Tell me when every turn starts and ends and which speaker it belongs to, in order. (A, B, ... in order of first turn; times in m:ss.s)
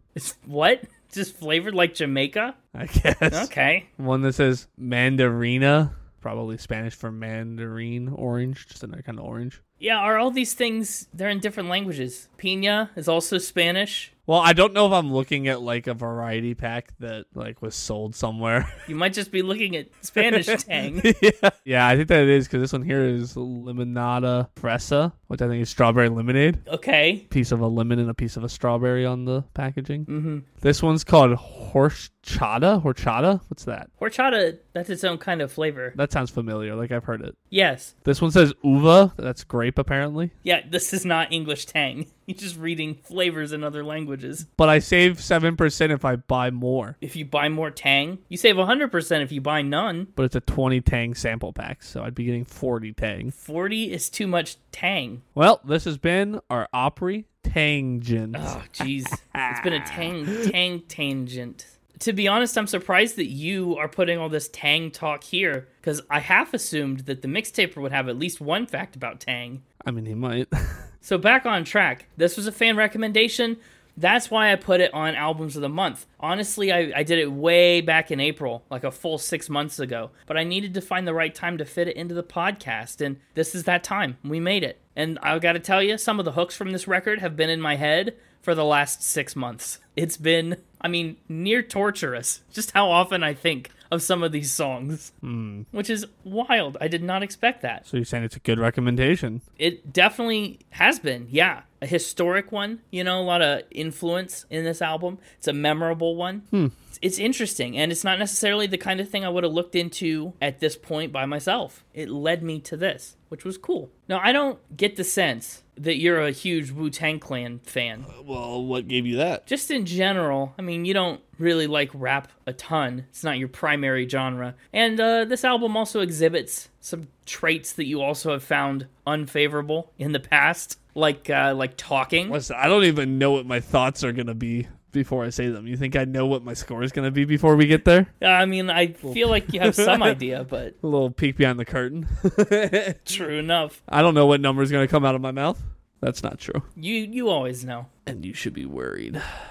0:00.1-0:02.6 A
0:02.7-0:09.6 B
0:03.3-0:03.9 A
0:09.8-0:14.1 A
0:14.3-0:18.7 B
0:18.9-0:21.1 A
0:20.2-0:26.6 B
0:26.7-0:27.2 A
0:27.3-0:30.1 B
0:30.1-0:30.4 A
0:30.6-0:33.9 B
0:34.0-0:35.9 A
0:35.9-0:37.4 B
0:37.5-0:37.9 A
0:38.0-0:40.3 B
0:40.4-0:44.4 A
0:44.6-0:47.0 B
0:47.0-0:50.1 A
0:50.2-0:53.3 B
0:53.3-0:55.2 A
0:55.4-0:58.6 B
0:58.3-1:09.6 A
0:59.3-1:00.5 B
1:09.8-1:10.8 B
1:11.0-1:35.1 A
1:35.2-1:35.7 B
1:35.7-1:37.8 A
1:37.8-1:39.4 B
1:39.6-1:58.1 A
1:58.1-1:59.4 B
1:59.5-2:12.4 A
2:12.3-2:18.1 B
2:18.2-2:20.8 A
2:19.1-2:20.2 B
2:20.8-2:23.0 B
2:23.1-2:23.8 A
2:23.9-2:26.6 B
2:26.8-2:27.9 A
2:28.1-2:29.2 B